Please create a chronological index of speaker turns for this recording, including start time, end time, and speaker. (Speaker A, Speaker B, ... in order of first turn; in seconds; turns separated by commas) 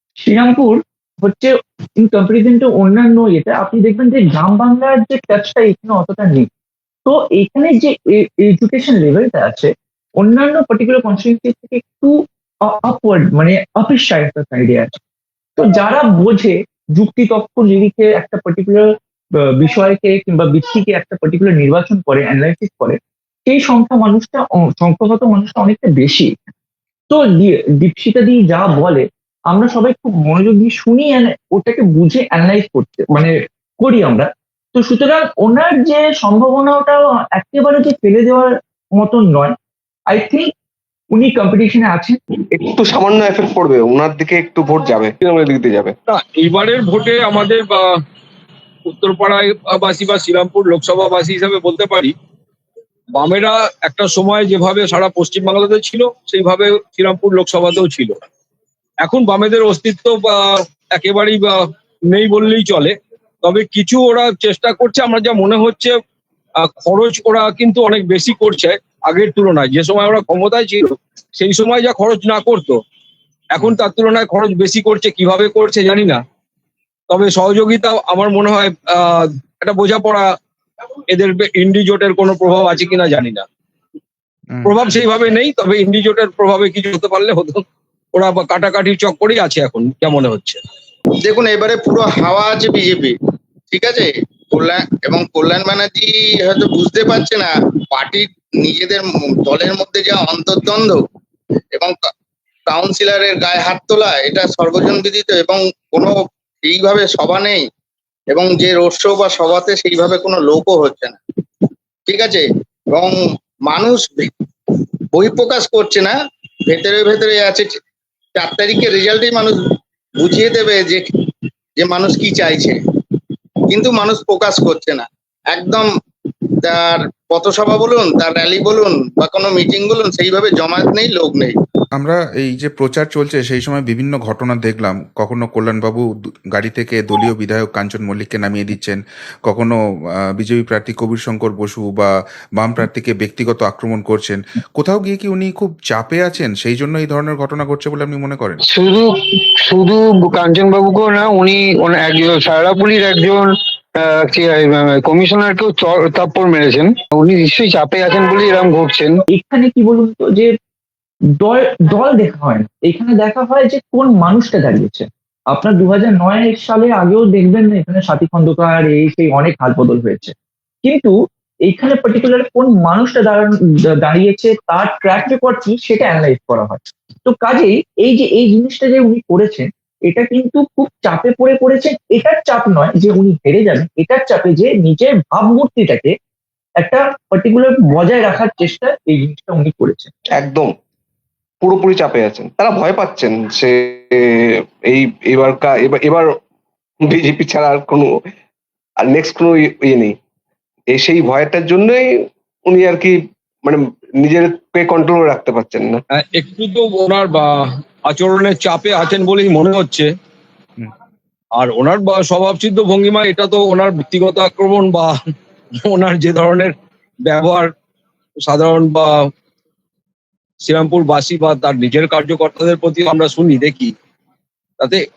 Speaker A: 0.2-6.5, Speaker A: 7.1-12.2, Speaker A: 12.7-15.0, Speaker A: 15.6-18.9, Speaker A: 19.6-26.3, Speaker A: 27.1-39.5, Speaker A: 40.1-40.5, Speaker A: 41.1-42.2, Speaker B: 42.5-45.9, Speaker C: 46.1-47.8, Speaker C: 48.9-52.1, Speaker C: 53.2-58.1, Speaker C: 59.0-61.6, Speaker C: 62.1-65.9, Speaker C: 66.6-72.8, Speaker C: 73.5-76.2, Speaker C: 77.1-80.3, Speaker C: 81.1-83.5, Speaker D: 84.5-84.8, Speaker C: 84.7-87.6, Speaker C: 88.1-90.6, Speaker E: 91.2-93.2, Speaker E: 93.7-101.0, Speaker E: 102.7-107.6, Speaker E: 108.3-117.8, Speaker E: 118.4-119.6, Speaker E: 120.2-121.1, Speaker E: 121.8-122.8, Speaker E: 123.7-125.9, Speaker E: 126.6-131.6, Speaker D: 132.0-139.8, Speaker D: 140.3-148.6, Speaker F: 148.7-159.2, Speaker A: 159.3-160.5, Speaker A: 161.4-171.1, Speaker A: 171.7-186.1, Speaker A: 186.8-190.1, Speaker B: 190.4-190.7, Speaker B: 191.6-196.3, Speaker B: 197.1-198.1, Speaker B: 199.1-200.2, Speaker B: 200.9-202.1, Speaker B: 202.7-206.0, Speaker C: 206.1-207.5, Speaker C: 208.1-210.1, Speaker C: 211.6-215.2, Speaker C: 215.8-216.7, Speaker C: 217.3-217.7, Speaker C: 218.5-219.1, Speaker C: 220.6-223.9